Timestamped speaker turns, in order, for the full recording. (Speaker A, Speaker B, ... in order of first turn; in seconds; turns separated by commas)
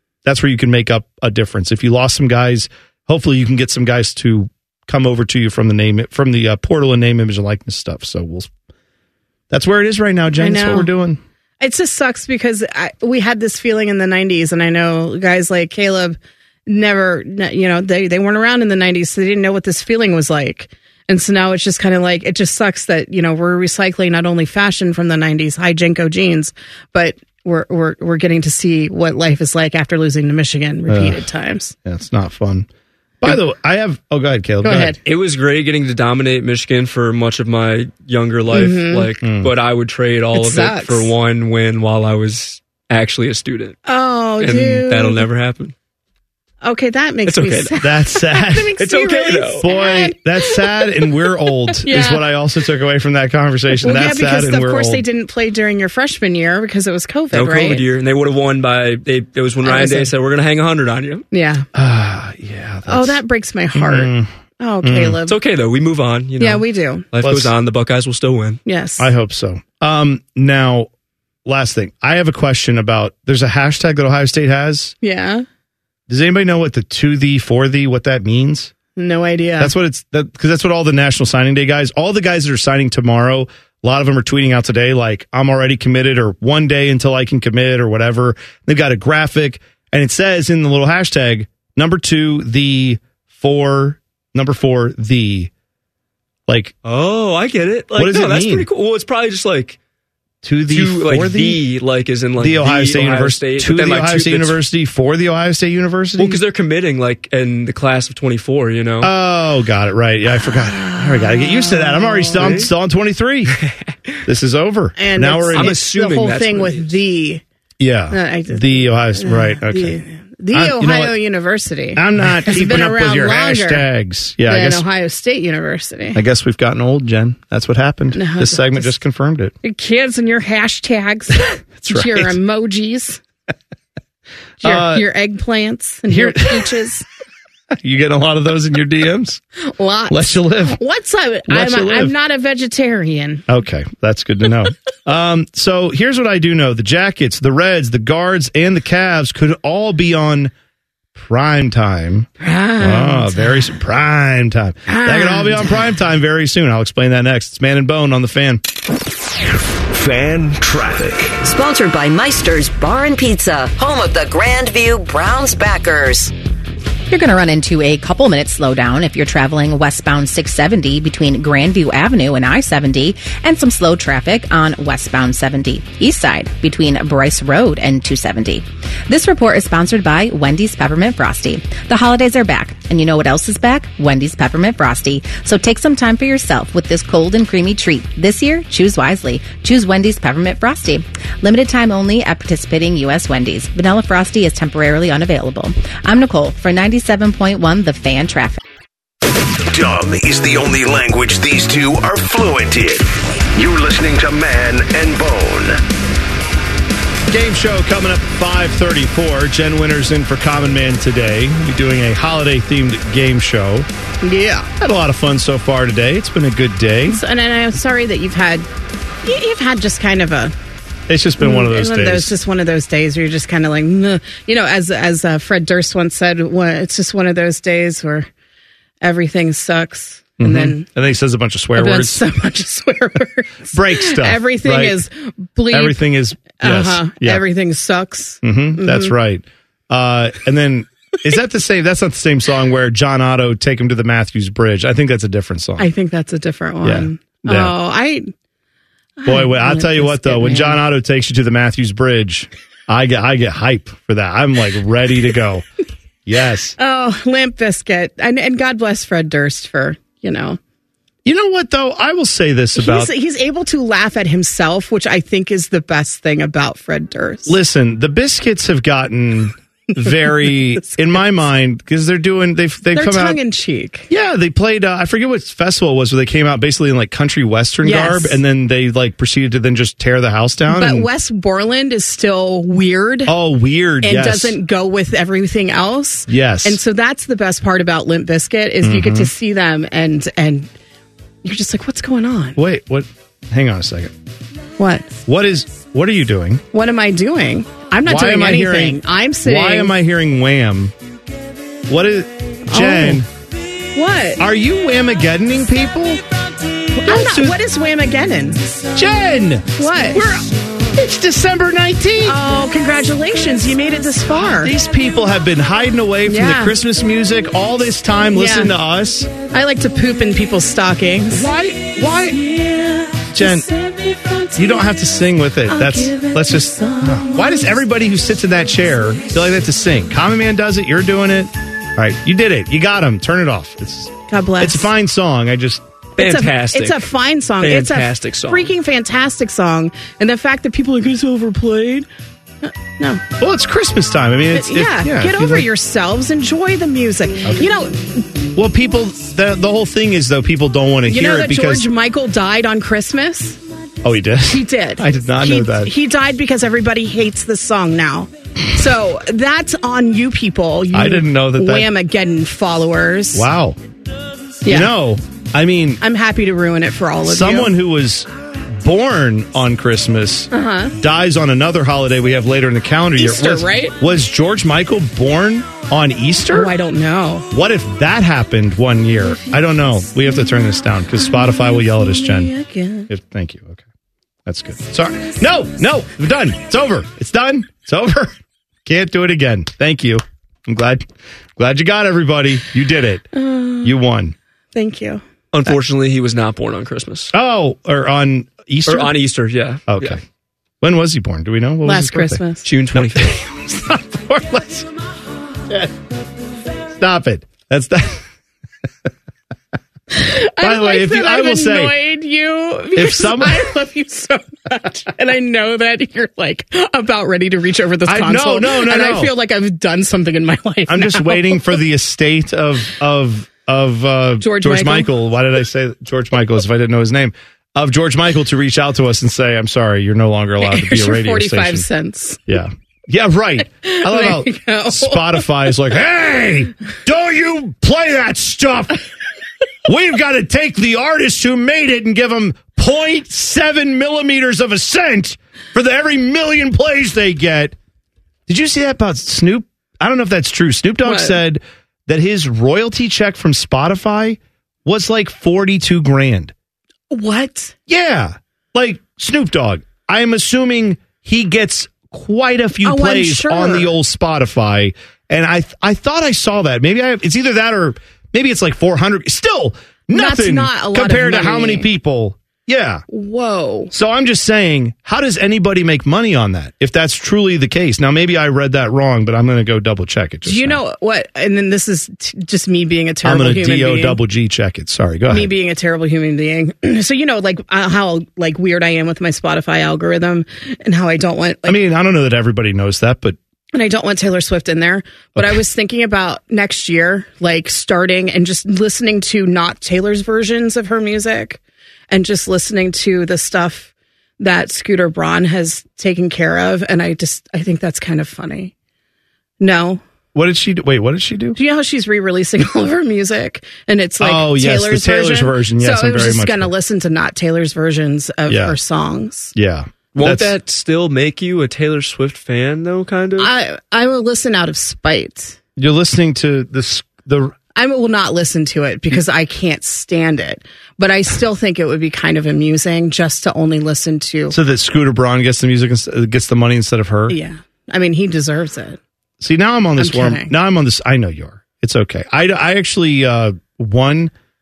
Speaker A: 0.2-8.5, Speaker A: 9.5-11.2, Speaker B: 10.4-10.9, Speaker B: 11.6-31.8, Speaker A: 30.9-31.2, Speaker A: 31.8-32.7, Speaker A: 33.2-35.0, Speaker B: 34.6-35.0, Speaker C: 35.0-43.8, Speaker B: 38.5-39.1, Speaker A: 39.2-39.5, Speaker B: 40.4-41.1, Speaker B: 43.9-45.3, Speaker C: 44.4-45.7, Speaker B: 46.6-50.9, Speaker C: 47.3-47.8, Speaker A: 47.8-48.8, Speaker C: 48.8-49.7, Speaker A: 49.6-55.0, Speaker B: 51.8-52.3, Speaker B: 53.8-57.9, Speaker C: 57.3-61.2, Speaker B: 59.6-60.1, Speaker B: 61.3-61.7, Speaker A: 61.7-63.2, Speaker B: 62.9-65.4, Speaker A: 63.7-64.3, Speaker A: 64.8-65.2, Speaker C: 65.3-68.6, Speaker B: 66.4-67.1, Speaker A: 67.2-67.5, Speaker B: 68.7-69.1, Speaker A: 69.0-70.9, Speaker A: 71.5-75.0, Speaker B: 75.0-75.5, Speaker A: 76.1-78.7, Speaker B: 79.0-79.7, Speaker A: 79.6-95.5, Speaker A: 96.5-96.8, Speaker C: 96.8-99.8, Speaker A: 97.9-98.7, Speaker A: 100.4-101.6, Speaker C: 100.7-104.6, Speaker A: 102.4-106.4, Speaker C: 106.2-109.1, Speaker A: 109.0-113.5, Speaker B: 110.8-112.5, Speaker C: 112.4-112.7, Speaker A: 114.2-115.8, Speaker B: 115.0-117.4, Speaker C: 115.5-117.0, Speaker A: 117.8-120.0, Speaker B: 118.1-123.9, Speaker A: 120.5-121.2, Speaker A: 122.0-124.8, Speaker B: 124.5-126.2, Speaker A: 126.2-129.5, Speaker B: 128.1-128.9, Speaker B: 129.6-133.2, Speaker A: 131.8-132.4, Speaker B: 134.6-137.1, Speaker A: 134.6-135.1, Speaker A: 136.1-136.8, Speaker A: 137.7-139.4, Speaker B: 139.6-143.4, Speaker A: 140.1-140.8, Speaker A: 141.5-142.1, Speaker A: 143.5-150.5, Speaker A: 151.2-158.6, Speaker B: 152.4-153.7, Speaker B: 154.9-155.8, Speaker D: 159.9-161.4, Speaker E: 161.4-166.3, Speaker F: 167.1-198.6, Speaker D: 199.7-205.8, Speaker A: 207.3-213.9, Speaker B: 214.2-214.7, Speaker A: 214.8-217.2, Speaker B: 217.1-218.7, Speaker B: 219.2-220.5, Speaker A: 221.1-222.3, Speaker B: 221.4-228.3, Speaker B: 229.0-230.9, Speaker A: 230.4-232.2, Speaker B: 231.8-236.0, Speaker A: 233.7-235.0, Speaker A: 235.7-237.4, Speaker B: 236.6-239.1, Speaker A: 238.4-245.9, Speaker B: 245.8-248.3, Speaker A: 246.8-247.8, Speaker B: 249.2-250.8, Speaker A: 249.2-255.7, Speaker A: 256.3-256.8, Speaker B: 256.8-260.6, Speaker A: 261.2-263.1, Speaker B: 262.8-267.6, Speaker A: 267.5-273.4, Speaker B: 272.9-274.1, Speaker A: 274.1-281.1, Speaker B: 277.8-278.4, Speaker B: 280.7-283.3, Speaker A: 283.3-284.6, Speaker B: 284.0-290.7, Speaker A: 286.3-286.8, Speaker A: 288.8-289.3, Speaker B: 291.4-292.6, Speaker A: 292.6-294.1, Speaker B: 294.8-295.1, Speaker A: 295.3-296.6, Speaker B: 296.7-299.9, Speaker A: 298.1-300.9, Speaker A: 301.9-303.3, Speaker B: 302.7-303.2, Speaker B: 303.9-304.4, Speaker A: 304.4-306.2, Speaker B: 307.0-308.7, Speaker A: 307.0-307.6, Speaker A: 308.9-312.4, Speaker B: 309.8-310.2, Speaker B: 312.2-314.7, Speaker A: 314.3-319.3, Speaker B: 316.3-316.8, Speaker B: 318.3-318.7, Speaker B: 319.5-321.5, Speaker A: 321.3-322.4, Speaker B: 322.3-324.7, Speaker A: 323.3-323.7, Speaker A: 324.6-335.8, Speaker B: 325.7-327.7, Speaker B: 334.3-334.9, Speaker C: 336.2-337.0, Speaker B: 336.2-342.1, Speaker C: 337.6-338.7, Speaker B: 342.6-343.2, Speaker A: 343.4-345.7, Speaker B: 344.5-348.3, Speaker A: 348.6-351.9, Speaker B: 351.1-353.6, Speaker A: 354.0-355.9, Speaker B: 354.5-363.5, Speaker A: 360.9-361.9, Speaker A: 363.3-363.8, Speaker B: 364.6-364.9, Speaker A: 364.7-366.0, Speaker B: 366.0-367.7, Speaker A: 367.3-376.7, Speaker B: 370.5-370.9, Speaker B: 373.2-374.0, Speaker B: 376.5-377.5, Speaker A: 377.5-382.5, Speaker B: 381.2-383.1, Speaker A: 383.1-383.8, Speaker A: 384.4-391.1, Speaker A: 391.6-393.3, Speaker B: 393.3-394.0, Speaker A: 393.8-394.4, Speaker B: 394.7-395.2, Speaker C: 395.5-397.3, Speaker A: 397.3-399.2, Speaker C: 398.9-400.2, Speaker A: 399.9-400.2, Speaker A: 400.8-402.4, Speaker B: 401.9-402.7, Speaker C: 402.6-403.4, Speaker A: 402.9-404.9, Speaker A: 407.0-408.2, Speaker B: 410.1-421.8, Speaker A: 410.6-412.0, Speaker A: 412.9-413.7, Speaker A: 418.1-419.3, Speaker A: 420.9-431.9, Speaker B: 424.4-425.1, Speaker B: 430.6-432.4, Speaker A: 432.5-439.0, Speaker B: 433.8-435.5, Speaker A: 439.9-447.8, Speaker A: 448.5-456.5, Speaker B: 451.0-451.4, Speaker B: 457.1-457.8, Speaker A: 457.9-473.1, Speaker B: 462.8-463.9, Speaker B: 470.1-471.9, Speaker B: 473.1-473.9, Speaker A: 473.9-480.8, Speaker B: 480.4-484.2, Speaker A: 483.2-485.5, Speaker B: 485.3-491.8, Speaker A: 491.7-493.4, Speaker B: 493.7-508.7, Speaker B: 509.6-510.0, Speaker A: 510.4-511.6, Speaker B: 511.6-519.5, Speaker A: 514.2-516.7, Speaker A: 518.5-518.8, Speaker A: 519.5-520.5, Speaker C: 520.1-523.5, Speaker B: 523.4-525.6, Speaker A: 525.8-527.5, Speaker B: 527.8-534.6, Speaker A: 534.5-537.4, Speaker B: 537.3-539.0, Speaker A: 539.4-544.3, Speaker B: 540.0-540.5